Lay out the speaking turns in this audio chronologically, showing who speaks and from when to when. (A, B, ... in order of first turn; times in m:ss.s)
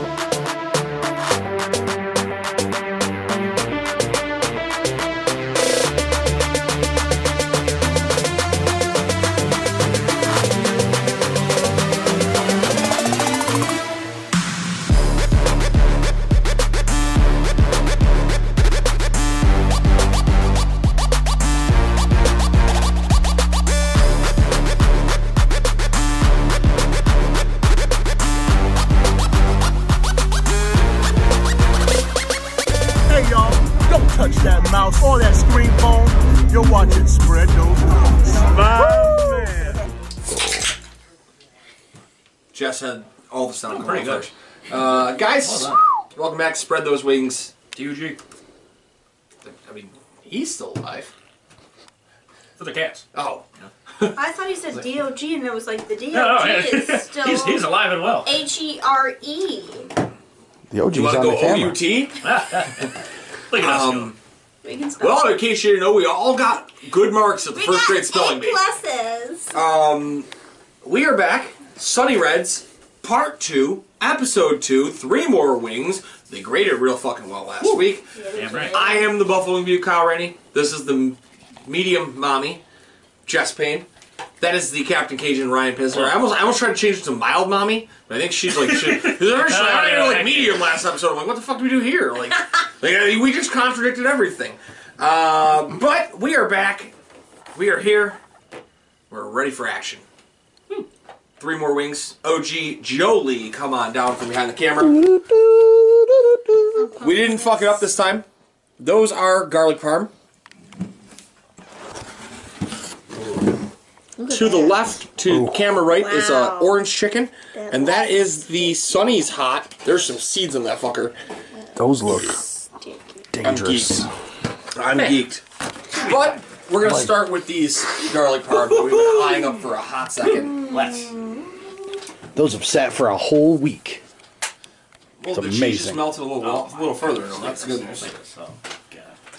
0:33.1-0:39.8 A
0:42.5-0:47.6 B
0:43.7-0:45.8 C
0:47.7-0:48.2 C
0:49.4-0:51.1 B
0:52.6-0:53.1 C
0:53.1-0:53.4 B
0:54.1-0:57.7 D
0:56.1-0:58.3 C
0:58.2-0:59.9 D
1:00.7-1:01.8 E
1:00.9-1:02.2 B
1:02.2-1:03.0 C
1:03.5-1:04.1 C
1:03.5-1:04.2 B
1:04.6-1:05.4 D
1:05.0-1:08.6 B
1:07.5-1:09.6 D
1:09.5-1:10.3 B
1:10.8-1:18.1 B
1:17.6-1:18.8 C
1:18.1-1:19.2 D
1:18.7-1:22.6 B
1:23.2-1:23.9 B
1:24.4-1:36.9 B
1:25.9-1:26.2 C
1:28.5-1:30.8 C
1:37.5-1:38.2 B
1:39.1-1:40.0 B
1:41.4-1:45.0 B
1:44.9-1:46.2 E
1:46.8-1:47.8 D
1:46.9-1:48.2 B
1:48.8-1:50.1 B
1:54.2-1:54.7 A
1:54.3-2:01.2 B
1:54.4-1:54.8 D
1:55.3-1:55.6 E
1:55.8-1:56.8 D
1:57.5-1:58.3 D
2:01.5-2:03.3 D
2:01.8-2:02.4 E
2:03.3-2:04.1 E
2:03.4-2:04.1 B
2:04.7-2:05.4 B
2:04.9-2:05.2 C
2:05.9-2:06.5 C
2:06.0-2:10.6 B
2:06.8-2:07.2 E
2:08.5-2:09.6 C
2:10.2-2:11.8 D
2:10.5-2:11.1 C
2:12.3-2:14.0 E
2:15.2-2:18.1 B
2:15.3-2:16.2 E
2:16.4-2:19.2 C